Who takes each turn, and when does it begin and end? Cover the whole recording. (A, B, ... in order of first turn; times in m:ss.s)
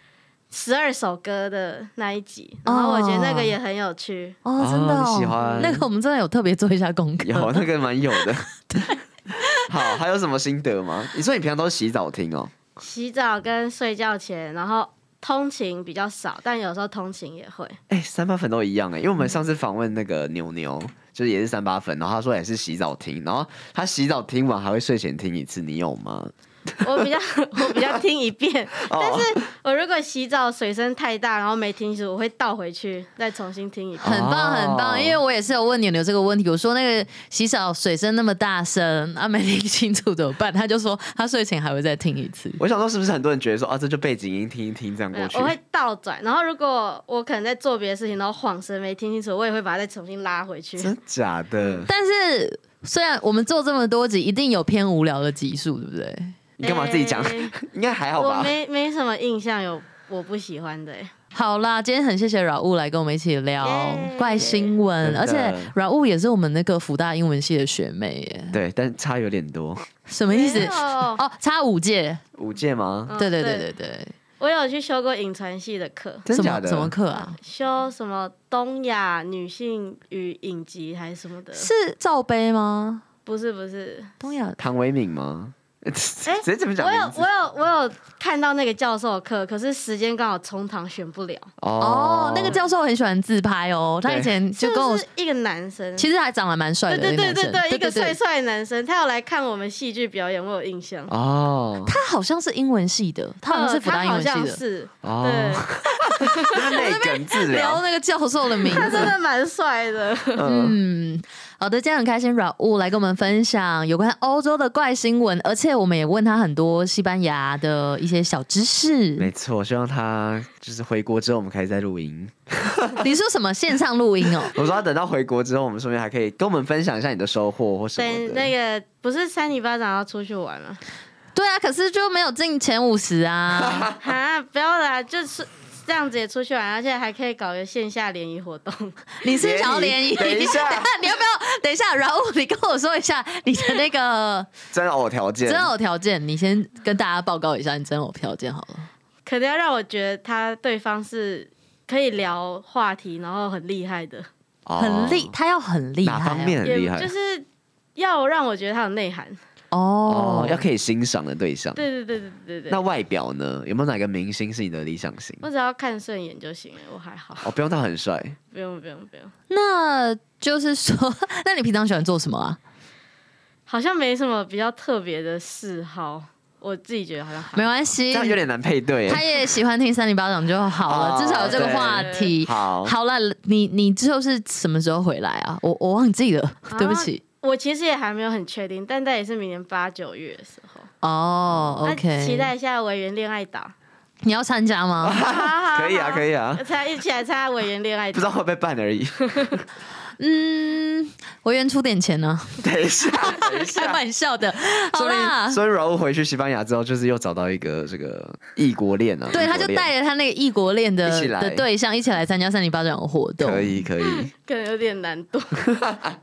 0:00.5-0:04.4 A
0:02.6-0:03.5 B
0:04.4-0:07.6 B
0:04.6-0:05.8 C
0:05.4-0:05.8 A
0:07.2-0:08.5 C
0:08.2-0:09.6 B
0:09.7-0:12.5 C
0:12.8-0:17.8 A
0:17.9-0:26.3 C
0:26.8-0:34.2 A
0:28.8-0:29.4 C
0:34.0-0:35.2 C
0:34.0-0:42.6 B
0:42.6-0:45.6 C
0:45.1-0:50.9 A
0:50.8-0:51.9 C
0:51.6-0:51.9 A
0:51.9-0:56.4 B
0:56.6-0:57.5 A
0:56.6-0:58.5 C
0:58.2-1:01.1 A
1:01.3-1:08.6 B
1:03.6-1:04.8 A
1:05.0-1:05.7 C
1:08.5-1:09.9 C
1:10.1-1:12.2 B
1:10.3-1:11.2 A
1:12.4-1:13.1 C
1:13.1-1:13.7 A
1:13.2-1:14.1 B
1:14.4-1:16.2 A
1:16.2-1:16.9 C
1:16.3-1:17.4 B
1:17.2-1:21.7 A
1:21.5-1:23.0 B
1:23.2-1:24.1 A
1:24.2-1:24.6 B
1:24.6-1:27.2 C
1:26.2-1:31.5 A
1:31.6-1:32.6 C
1:31.8-1:35.0 B
1:34.0-1:34.3 C
1:34.5-1:36.1 A
1:36.0-1:38.2 B
1:36.9-1:41.1 A
1:41.1-1:41.9 C
1:41.8-1:44.6 B
1:43.5-1:46.7 A
1:45.0-1:47.8 C
1:46.5-1:49.1 B
1:48.6-1:50.4 A
1:48.7-1:49.1 C
1:50.3-1:50.8 C
1:50.4-1:59.3 B
1:59.2-2:03.0 C
2:03.0-2:04.5 B
2:04.5-2:08.5 C
2:08.0-2:10.8 A
2:11.3-2:13.9 B
2:13.6-2:14.0 C
2:14.0-2:19.1 A
2:19.2-2:24.5 B
2:19.3-2:20.9 C
2:24.7-2:25.7 C
2:25.4-2:28.9 B
2:29.2-2:34.3 A
2:34.6-2:35.3 C
2:34.8-2:36.6 B
2:36.0-2:37.1 C
2:36.6-2:37.4 A
2:38.0-2:39.4 A
2:39.7-2:40.6 B
2:40.1-2:41.8 C
2:41.8-2:42.8 A
2:42.7-2:45.5 C
2:45.4-2:47.5 A
2:47.4-2:48.4 C
2:48.5-2:49.3 A
2:49.5-2:52.6 B
2:53.7-2:57.7 A
2:57.5-2:58.4 B
2:58.1-2:59.2 C
2:59.1-3:07.2 B
3:00.8-3:02.9 C
3:01.3-3:02.4 A
3:06.7-3:10.9 A
3:11.0-3:12.5 B
3:11.5-3:11.8 C
3:11.8-3:13.7 A
3:14.2-3:15.2 B
3:15.0-3:16.6 C
3:15.2-3:18.3 A
3:18.1-3:19.6 C
3:20.2-3:25.6 B
3:22.6-3:24.0 C
3:24.7-3:29.9 C
3:29.3-3:33.8 B
3:31.0-3:31.6 C
3:33.4-3:34.3 C
3:34.0-3:35.7 A